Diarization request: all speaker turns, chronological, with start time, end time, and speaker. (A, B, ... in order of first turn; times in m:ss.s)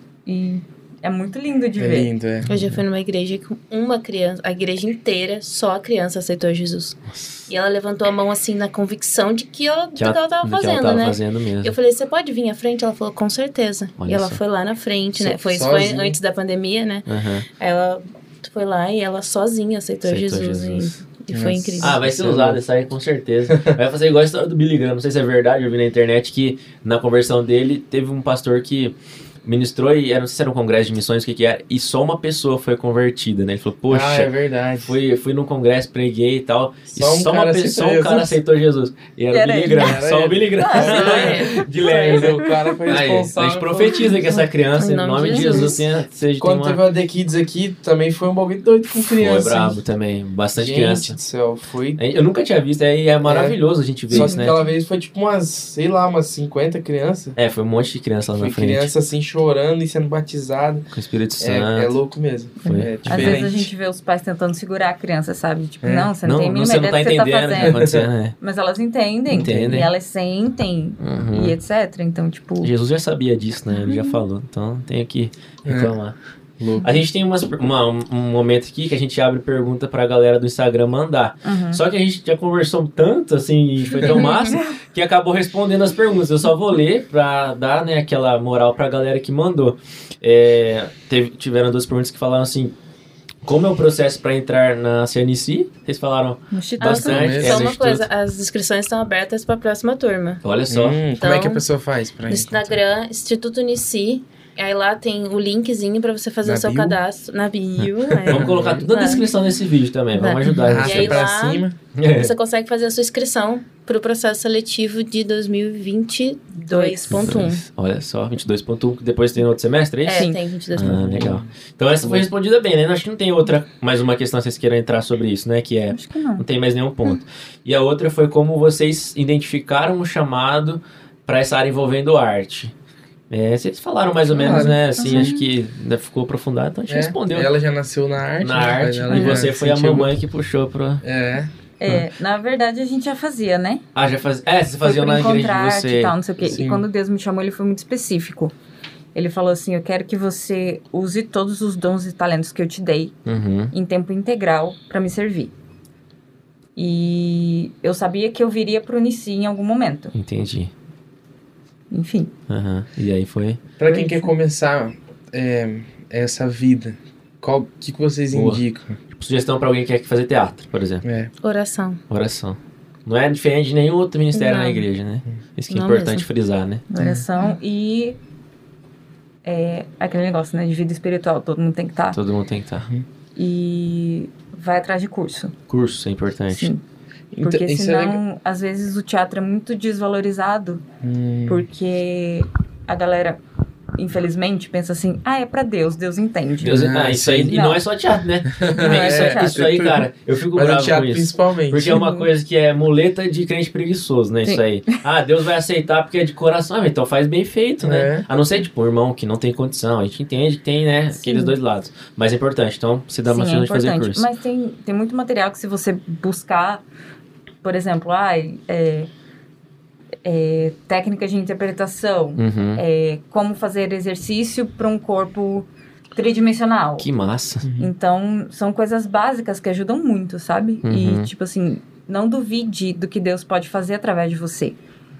0:00.2-0:02.1 A
0:01.8-0:02.6 B
0:02.4-0:17.1 C
0:10.0-0:11.7 D
0:14.0-0:14.4 D
0:15.1-0:16.2 B
0:17.1-0:17.4 D
0:17.6-0:22.0 C
0:20.0-0:21.0 D
0:21.3-0:22.6 B
0:21.8-0:34.3 D
0:33.9-0:35.0 B
0:34.9-0:46.8 D
0:36.9-0:38.4 B
0:39.3-0:40.0 A
0:39.7-0:44.2 B
0:40.6-0:42.7 A
0:40.7-0:42.1 C
0:44.3-0:45.8 C
0:45.4-0:45.7 B
0:46.4-0:49.8 B
0:49.0-0:51.2 D
0:50.6-0:52.0 B
0:52.0-0:54.6 D
0:53.2-0:57.4 B
0:57.4-0:58.9 D
0:58.3-1:00.8 B
1:00.9-1:02.0 D
1:01.4-1:03.7 B
1:02.6-1:07.8 A
1:02.6-1:03.5 D
1:05.8-1:06.1 B
1:06.2-1:08.4 D
1:07.6-1:08.0 B
1:08.4-1:12.7 A
1:09.3-1:09.9 D
1:09.4-1:09.9 B
1:11.0-1:11.6 D
1:12.6-1:16.2 D
1:13.7-1:14.2 A
1:15.6-1:15.9 B
1:16.6-1:16.9 B
1:16.8-1:32.7 D
1:21.4-1:21.8 A
1:24.0-1:24.7 A
1:33.4-1:38.0 D
1:36.5-1:37.2 A
1:36.8-1:40.4 C
1:37.0-1:37.7 B
1:40.4-1:41.0 D
1:40.7-1:42.7 B
1:41.2-1:41.6 C
1:42.3-1:49.3 C
1:46.4-1:47.0 B
1:47.8-1:51.2 D
1:48.1-1:48.9 B
1:50.1-1:57.6 C
1:50.6-1:51.8 B
1:51.9-1:52.3 D
1:56.5-1:57.3 A
1:57.1-2:12.7 D
2:00.0-2:00.4 A
2:00.1-2:01.3 C
2:00.8-2:01.5 B
2:02.0-2:02.3 B
2:05.9-2:06.4 A
2:13.3-2:17.5 D
2:14.3-2:15.1 B
2:14.4-2:15.4 A
2:16.9-2:20.1 B
2:18.4-2:21.0 D
2:19.1-2:19.4 A
2:21.0-2:22.0 B
2:21.8-2:23.8 A
2:23.9-2:26.2 D
2:24.8-2:28.5 A
2:26.4-2:26.9 B
2:29.1-2:33.2 A
2:33.2-2:33.7 D
2:33.7-2:35.5 A
2:36.8-2:40.1 A
2:40.1-2:40.7 D
2:41.9-2:42.3 A
2:42.5-2:43.6 D
2:43.8-2:49.0 B
2:43.8-2:44.3 A
2:48.3-2:51.0 D
2:51.0-2:51.3 B
2:51.4-2:52.0 C
2:52.1-2:56.8 D
2:54.3-2:54.8 C
2:55.7-2:56.3 C
2:56.9-2:58.2 A
2:57.0-2:57.2 B
2:59.4-3:02.2 A
3:02.1-3:02.9 D
3:03.4-3:05.5 A
3:05.7-3:06.7 D
3:06.5-3:06.8 A
3:07.3-3:08.2 B
3:07.4-3:10.8 A
3:11.0-3:11.7 B
3:11.5-3:13.4 A
3:14.0-3:16.8 A
3:16.6-3:34.3 D
3:16.6-3:17.6 B
3:17.5-3:17.8 A
3:18.5-3:22.0 B
3:18.7-3:19.6 A
3:21.9-3:22.3 A
3:27.8-3:28.3 B
3:31.1-3:31.5 A
3:33.2-3:36.8 A
3:37.6-3:39.1 A
3:40.2-3:47.1 A
3:42.4-3:42.8 D
3:47.0-3:47.7 D
3:47.6-3:47.9 B
3:47.8-3:54.8 A
3:50.8-3:51.3 D